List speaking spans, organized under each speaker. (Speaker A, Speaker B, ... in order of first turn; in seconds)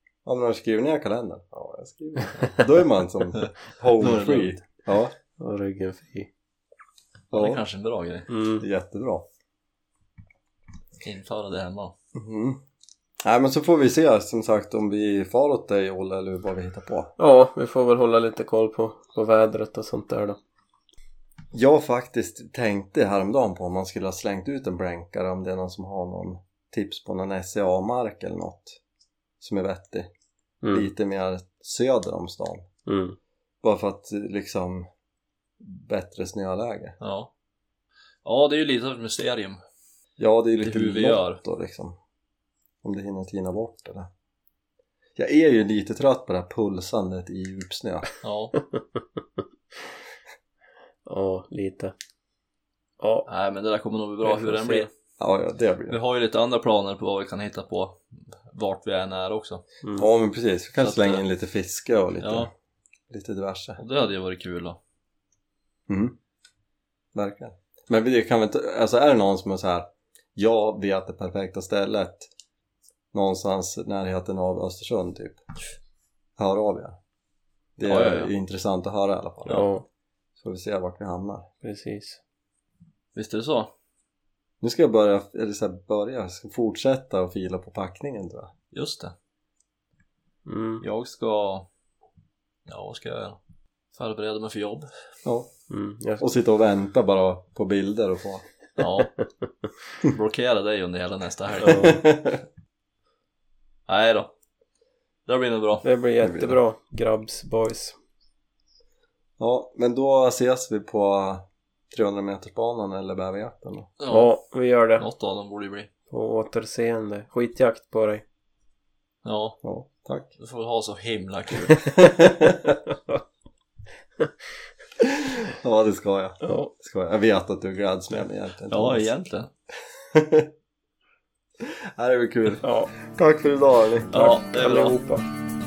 Speaker A: 0.2-5.1, 7.3-7.6, 8.6-9.3, 12.2-12.6, 13.2-17.1, 21.5-28.8, 29.4-30.1, 30.7-32.7, 33.6-34.9, 35.6-37.0, 40.2-42.0, 42.8-44.1, 45.2-48.1, 55.2-56.0, 60.0-62.5, 63.1-63.8, 65.9-66.2, 67.2-72.3, 73.1-75.4, 76.4-77.0, 77.8-79.7, 80.4-81.5, 84.6-88.5, 95.2-95.5, 96.2-98.4, 101.6-102.4, 106.2-106.6, 109.4-113.9, 119.6-120.3, 122.0-122.8, 125.0-129.1, 130.0-130.5, 131.6-134.1
Speaker B: 3.4-4.5, 7.3-8.3, 11.0-11.9, 37.0-37.3, 38.2-39.6, 40.6-41.4, 48.2-48.6, 53.3-54.9, 55.9-59.6, 60.8-61.2, 62.2-62.5, 63.8-64.8, 77.8-78.3, 83.2-83.7, 88.7-89.2, 90.8-91.7, 92.7-93.4, 94.0-94.9, 98.8-99.2, 100.0-102.0, 103.9-104.3, 105.3-105.9, 114.0-114.3, 115.0-115.9, 119.2-119.6, 120.4-122.0, 128.7-129.5, 134.1-135.0
Speaker C: 5.4-6.3, 8.3-8.7, 17.2-20.4, 30.6-30.9, 32.9-33.2, 51.1-51.9, 53.0-53.3, 54.2-54.9, 59.8-60.1, 79.5-79.8, 81.6-82.2, 90.5-90.8, 95.7-96.3, 101.7-101.9, 105.8-108.0, 114.1-115.1, 116.1-118.2, 126.4-126.7, 132.6-132.9, 134.1-135.3